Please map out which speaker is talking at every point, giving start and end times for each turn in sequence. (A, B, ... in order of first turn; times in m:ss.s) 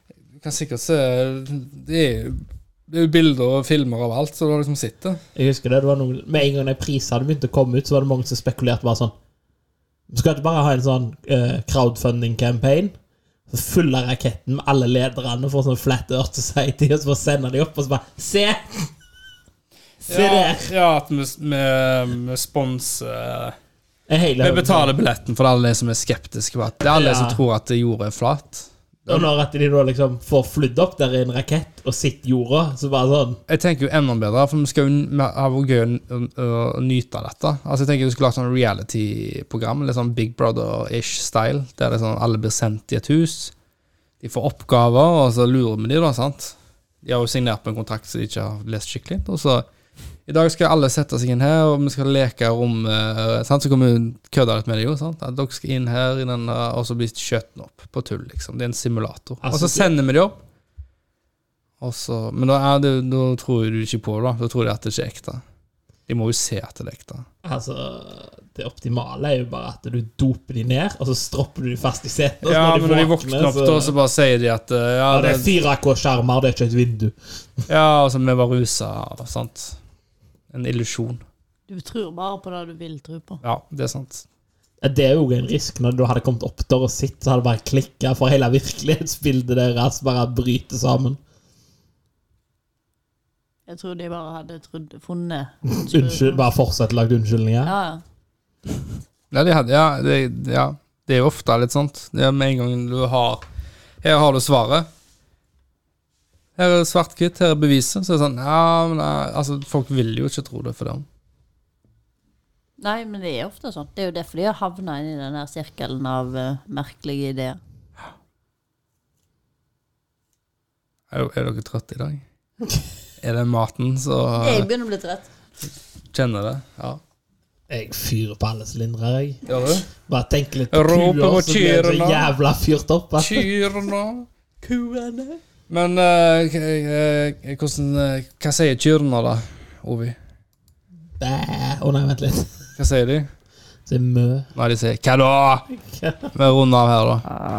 0:00.4-0:05.2 A
0:05.4-0:09.1 B
0:10.1-0:12.9 B
0:13.5-0:18.9 B
0:20.0-0:20.7 B
0:20.1-0:23.6 A
0:24.1-0:25.0 B
0:24.4-0:29.3 A
0:26.9-0:27.4 B
0:29.1-0:33.4 B
0:33.5-0:43.5 A
0:44.2-0:49.7 A
0:50.3-1:00.4 A
0:59.4-0:59.9 B
1:01.8-1:05.4 A
1:06.1-1:07.3 A
1:07.4-1:13.9 B
1:12.4-1:15.5 A
1:15.1-1:17.1 B
1:17.7-1:19.8 A
1:20.5-1:21.2 A
1:21.7-1:23.4 C
1:23.4-1:24.2 A
1:24.8-1:31.2 B
1:33.7-1:36.4 C
1:35.7-1:37.7 B
1:37.6-1:38.0 C
1:39.3-1:43.4 A
1:44.0-1:44.9 A
1:46.6-1:51.1 A
1:52.8-1:57.6 C
2:01.1-2:02.2 A
2:03.2-2:04.7 A
2:04.4-2:05.3 C
2:06.1-2:07.0 A
2:07.7-2:13.5 B
2:09.5-2:09.9 A
2:10.7-2:12.3 A
2:13.2-2:14.3 A
2:14.7-2:15.4 C
2:15.7-2:20.2 A
2:21.2-2:22.6 B
2:22.8-2:23.3 A
2:23.9-2:24.5 B
2:24.6-2:25.7 A
2:25.8-2:26.3 B
2:26.3-2:27.3 A